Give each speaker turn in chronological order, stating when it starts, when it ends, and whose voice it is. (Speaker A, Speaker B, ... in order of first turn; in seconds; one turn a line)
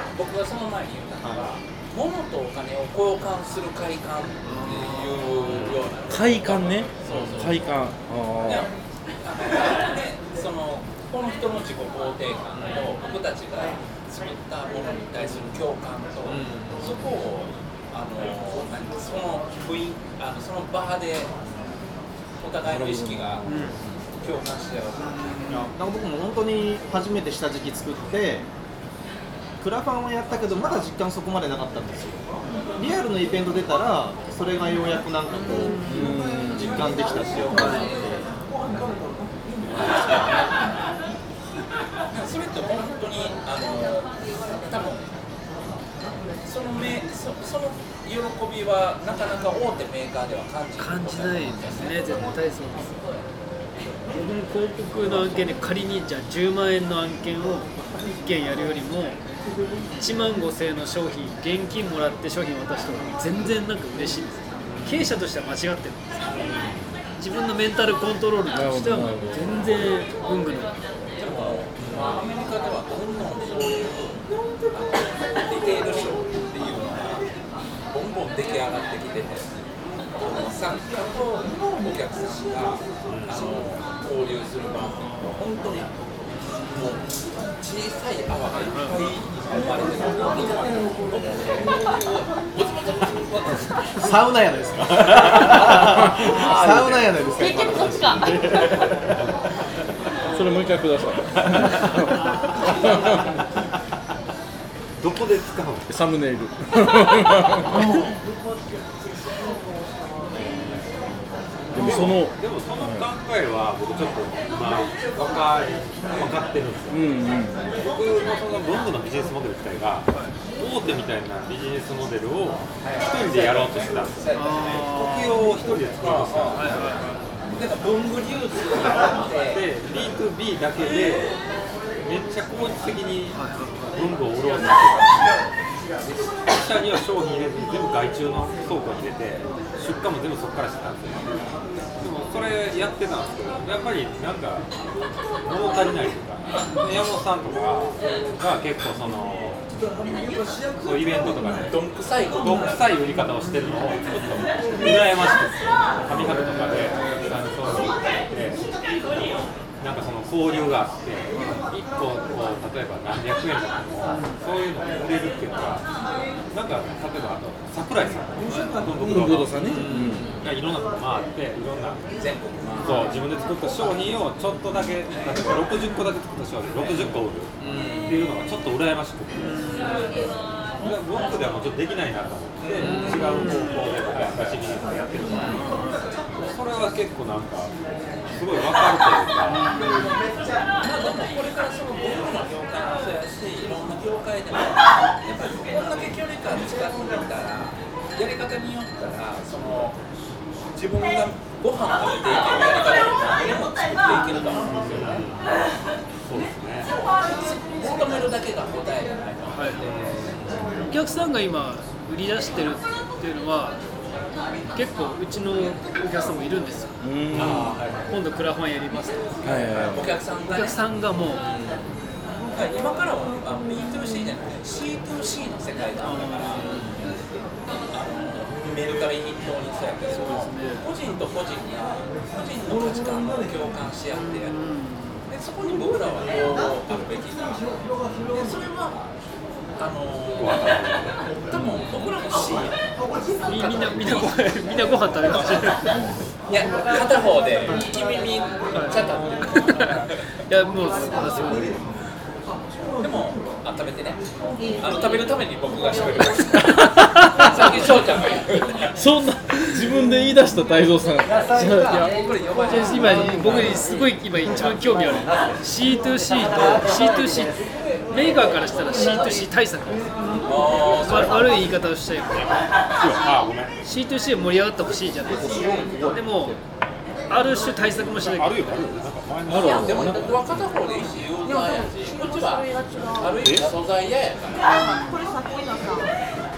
Speaker A: 0.1-7.6
Speaker B: 4.5-5.3
Speaker C: 6.1-8.7
Speaker D: 7.1-7.4
Speaker A: 8.4-21.3
Speaker D: 16.2-16.9
Speaker A: 22.4-23.4
Speaker C: 22.7-23.5
Speaker B: 23.5-23.8
Speaker A: 24.2-25.7
Speaker D: 25.5-28.5
Speaker D: 29.6-38.3
Speaker B: 35.6-36.2
Speaker C: 35.7-36.9
Speaker B: 37.5-37.9
Speaker A: 39.7-40.6
Speaker A: 42.1-45.1
Speaker A: 46.4-52.3
Speaker B: 50.8-53.0
Speaker B: 54.1-59.2
Speaker B: 60.0-66.3
Speaker E: 64.7-65.0
Speaker E: 66.4-66.9
Speaker B: 67.2-70.8
Speaker C: 68.5-69.4
Speaker A: 71.2-77.3
Speaker A: 77.9-79.5
Speaker A: 80.2-85.9
Speaker E: 83.1-83.4
Speaker A: 86.5-93.9
Speaker B: 88.7-89.0
Speaker D: 94.0-98.0
Speaker A: 96.5-96.9
Speaker F: 97.4-98.4
Speaker E: 97.9-99.3
Speaker C: 100.3-103.2
Speaker E: 101.4-102.1
Speaker E: 105.0-105.9
Speaker C: 105.9-108.0
Speaker C: 111.7-113.1
Speaker E: 111.8-117.0
Speaker C: 116.9-117.7
Speaker E: 117.8-124.2
Speaker A: 122.8-124.8
Speaker B: 124.3-125.5
Speaker E: 124.8-126.9
Speaker A: 126.0-126.7
Speaker B: 126.5-127.2
Speaker A: 127.5-129.6
Speaker E: 129.5-131.3
Speaker E: 132.0-135.4
Speaker B: 133.3-133.9
Speaker E: 136.5-144.7
Speaker E: 145.4-149.6
Speaker E: 150.8-165.8
Speaker A: 151.2-152.8
Speaker B: 153.4-153.7
Speaker B: 156.1-157.1
Speaker B: 164.1-164.4
Speaker E: 166.5-172.0
Speaker D: 168.6-169.2
Speaker C: 168.8-170.2
Speaker D: 169.7-170.3
Speaker A: 172.2-173.2
Speaker E: 172.8-180.2
Speaker B: 172.8-173.1
Speaker A: 175.2-175.5
Speaker A: 177.7-178.0
Speaker B: 179.4-180.0
Speaker E: 180.8-185.8
Speaker A: 182.7-183.5
Speaker B: 182.8-183.8
Speaker A: 184.2-184.5
Speaker B: 185.4-186.0
Speaker E: 186.3-187.7
Speaker E: 188.3-189.7
Speaker B: 189.5-190.2
Speaker A: 190.8-200.0
Speaker A: 200.7-205.2
Speaker E: 204.6-205.4
Speaker E: 206.3-206.9
Speaker A: 207.1-210.1
Speaker B: 209.5-209.9
Speaker E: 209.8-210.8
Speaker B: 210.8-213.8
Speaker B: 214.7-216.9
Speaker C: 217.0-217.8
Speaker A: 217.3-217.9
Speaker E: 217.3-218.1
Speaker B: 218.1-219.5
Speaker A: 219.4-220.8
Speaker C: 219.4-220.2
Speaker B: 220.4-221.4
Speaker A: 222.5-226.8
Speaker B: 226.0-226.9
Speaker A: 227.9-234.6
Speaker B: 230.1-230.8
Speaker B: 234.1-235.2
Speaker A: 235.3-237.7
Speaker A: 238.2-239.1
Speaker A: 239.8-240.7
Speaker E: 240.4-241.2
Speaker A: 241.5-242.8
Speaker A: 243.4-244.4
Speaker B: 243.5-245.9
Speaker A: 245.2-245.8
Speaker C: 245.9-246.2
Speaker A: 246.5-250.2
Speaker B: 248.8-249.9
Speaker B: 250.5-251.9
Speaker A: 253.0-254.2
Speaker A: 254.8-258.9
Speaker B: 256.9-257.6
Speaker C: 258.9-262.1
Speaker A: 261.6-264.0
Speaker B: 261.9-270.2
Speaker A: 270.4-271.7
Speaker B: 271.0-272.5
Speaker E: 273.0-273.7
Speaker B: 273.8-276.6
Speaker C: 275.3-276.6
Speaker B: 277.3-278.8
Speaker E: 278.1-280.3
Speaker C: 279.5-280.3
Speaker A: 279.6-284.7
Speaker F: 281.4-283.4
Speaker E: 283.4-283.7
Speaker F: 284.7-286.1
Speaker B: 284.8-285.2